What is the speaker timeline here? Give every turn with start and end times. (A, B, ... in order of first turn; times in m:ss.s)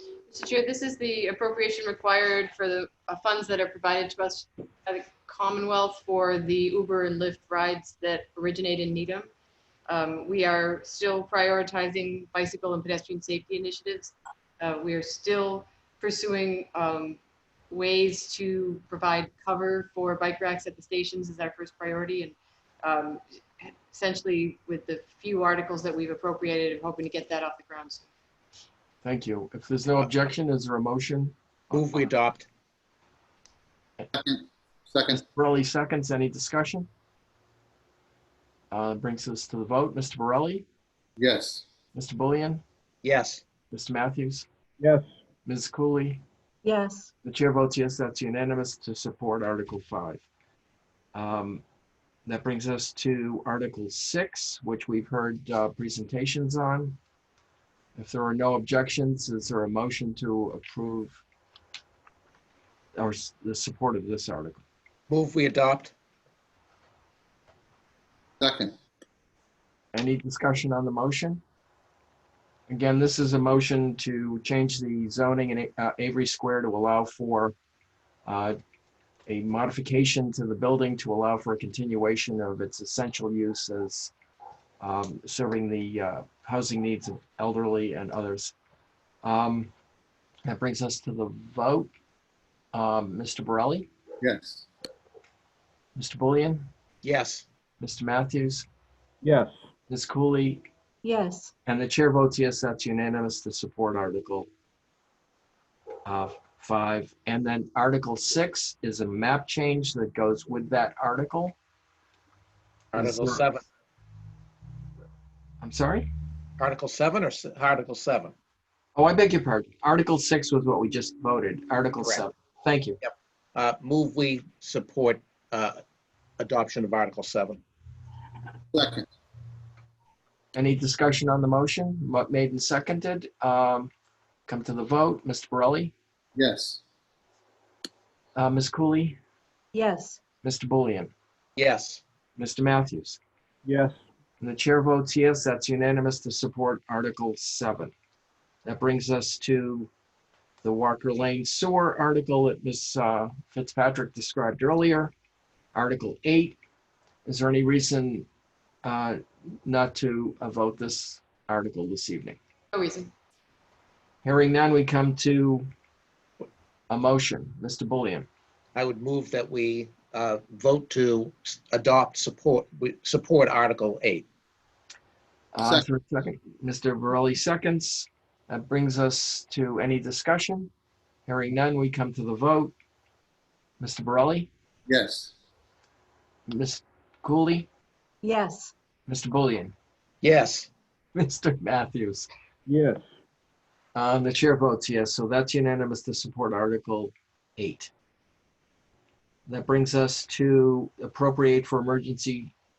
0:00.3-0:09.3 A
0:09.9-0:17.2 A
0:17.7-0:28.1 A
0:29.0-0:32.1 B
0:31.7-0:32.4 C
0:34.1-0:35.2 D
0:35.1-0:36.9 B
0:38.7-0:40.6 B
0:41.2-0:41.6 D
0:41.9-0:42.6 B
0:43.0-0:43.4 E
0:43.7-0:44.4 B
0:44.8-0:45.0 C
0:45.4-0:46.2 B
0:46.6-0:47.1 F
0:47.2-0:50.2 B
0:51.1-0:51.6 B
0:52.2-0:57.0 B
0:58.0-1:01.2 B
1:03.0-1:04.6 B
1:05.1-1:05.9 E
1:08.4-1:08.7 D
1:09.9-1:11.4 B
1:12.7-1:17.5 B
1:18.2-1:18.6 B
1:19.3-1:24.1 B
1:24.8-1:28.5 B
1:29.2-1:29.7 B
1:30.4-1:31.9 B
1:32.7-1:33.9 B
1:34.2-1:34.7 D
1:36.0-1:36.7 B
1:37.0-1:37.4 E
1:37.8-1:38.7 B
1:39.2-1:39.5 C
1:39.9-1:40.7 B
1:41.0-1:41.5 F
1:41.6-1:44.5 B
1:46.0-1:51.5 B
1:52.9-1:53.6 E
1:53.0-1:53.4 B
1:53.0-1:53.6 C
1:55.6-1:56.1 B
1:56.6-1:58.3 E
1:56.6-1:58.3 C
1:59.0-2:03.0 B
2:03.5-2:05.8 E
2:06.4-2:07.6 E
2:08.7-2:09.1 D
2:10.5-2:13.9 B
2:14.5-2:15.9 B
2:16.4-2:16.8 D
2:18.4-2:19.2 B
2:19.7-2:20.2 F
2:20.4-2:21.1 B
2:21.6-2:22.0 E
2:22.4-2:23.2 B
2:23.6-2:24.0 C
2:24.4-2:27.9 B
2:28.6-2:29.9 B
2:30.6-2:35.1 B
2:35.7-2:36.6 B
2:37.2-2:38.3 B
2:38.8-2:42.4 B
2:42.7-2:43.1 A
2:44.2-2:45.7 B
2:46.9-2:48.3 B
2:48.8-2:54.2 E
2:55.5-3:00.7 B
2:55.6-2:55.8 D
3:01.2-3:02.7 B
3:03.8-3:04.5 B
3:04.9-3:05.3 D
3:06.5-3:07.7 B
3:08.2-3:08.7 F
3:09.1-3:09.7 B
3:10.2-3:10.7 E
3:11.1-3:12.3 B
3:12.7-3:13.0 C
3:13.9-3:17.9 B
3:19.5-3:22.5 B